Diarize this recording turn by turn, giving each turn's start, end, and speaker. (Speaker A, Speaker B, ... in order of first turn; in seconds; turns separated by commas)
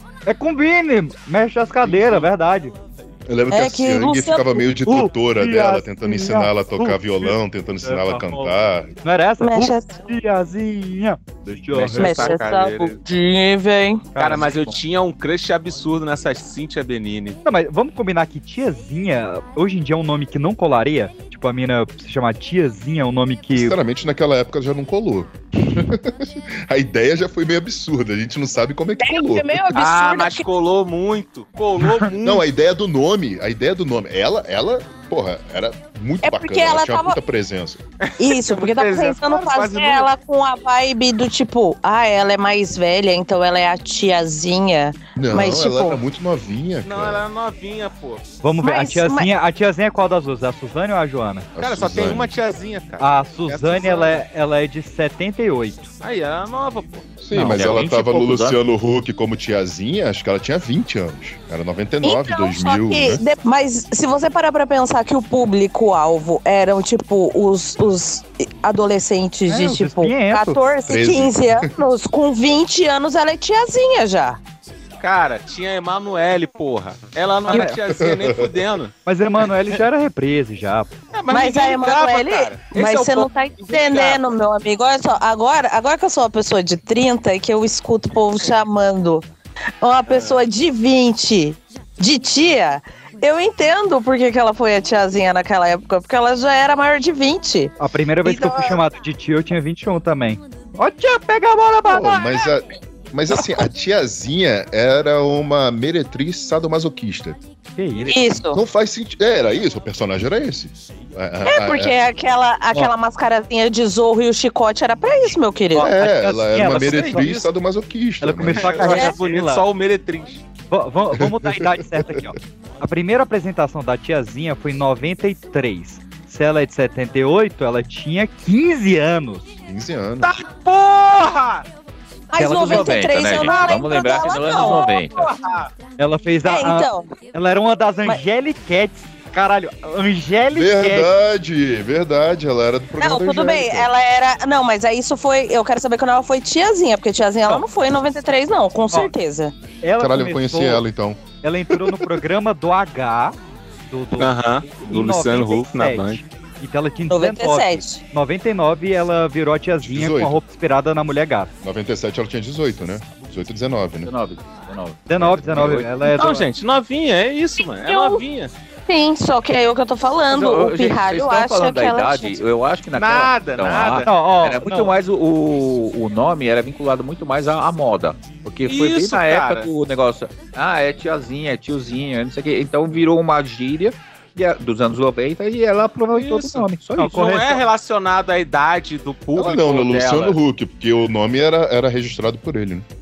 Speaker A: 0.3-2.7, Speaker B: 1.8-2.3, Speaker B: 3.3-8.9, Speaker C: 3.5-4.7, Speaker A: 4.9-8.5, Speaker A: 9.0-12.4, Speaker C: 9.4-10.0, Speaker D: 11.7-13.0, Speaker C: 12.0-14.1, Speaker A: 14.2-14.5, Speaker D: 14.2-17.4, Speaker E: 14.3-14.8, Speaker A: 17.4-23.8, Speaker B: 23.5-29.5, Speaker C: 29.0-30.5, Speaker D: 29.7-32.5, Speaker B: 32.2-37.8, Speaker C: 36.2-37.2, Speaker D: 38.1-40.1, Speaker C: 38.2-46.0, Speaker B: 45.2-47.2, Speaker D: 46.9-48.2, Speaker A: 48.4-51.5, Speaker C: 48.6-49.3, Speaker B: 51.5-52.3, Speaker D: 51.6-54.2, Speaker A: 53.0-55.9, Speaker D: 56.0-57.1, Speaker B: 57.2-63.2, Speaker A: 57.3-57.7, Speaker E: 57.4-58.6, Speaker C: 62.0-74.4, Speaker A: 69.5-70.6, Speaker B: 70.9-71.7, Speaker D: 75.0-78.9, Speaker A: 77.5-77.8, Speaker B: 77.9-78.5, Speaker A: 79.1-80.9, Speaker D: 81.1-84.3, Speaker C: 81.3-89.3, Speaker C: 89.8-97.7, Speaker D: 90.1-90.4, Speaker A: 97.8-102.3, Speaker C: 98.2-98.8, Speaker B: 101.9-107.4, Speaker A: 107.8-108.2, Speaker C: 108.1-108.6, Speaker B: 108.5-112.0, Speaker C: 111.5-115.9, Speaker B: 115.8-119.0, Speaker A: 115.8-117.4, Speaker D: 116.7-117.3, Speaker A: 118.2-119.6, Speaker D: 118.6-120.4, Speaker C: 118.9-119.1, Speaker A: 120.7-129.5, Speaker B: 121.1-122.3, Speaker B: 129.7-130.3, Speaker D: 130.2-131.7, Speaker C: 132.3-135.0, Speaker A: 132.4-133.5, Speaker E: 132.6-135.2, Speaker D: 134.4-135.7, Speaker A: 136.0-141.1, Speaker C: 136.4-137.1, Speaker B: 140.5-143.9, Speaker C: 143.0-149.5, Speaker A: 149.8-150.8, Speaker B: 150.0-152.1, Speaker A: 151.4-153.4, Speaker A: 153.9-161.5, Speaker D: 154.2-156.2, Speaker C: 157.1-158.0, Speaker B: 159.8-160.4, Speaker B: 161.6-164.1, Speaker E: 164.1-165.9, Speaker A: 165.1-166.5, Speaker D: 166.1-168.5, Speaker C: 167.9-168.2, Speaker C: 168.9-172.4, Speaker E: 170.3-187.2, Speaker D: 172.9-174.1, Speaker A: 174.0-174.9, Speaker D: 178.7-179.7, Speaker D: 186.1-190.4, Speaker A: 187.0-187.6, Speaker B: 189.3-192.9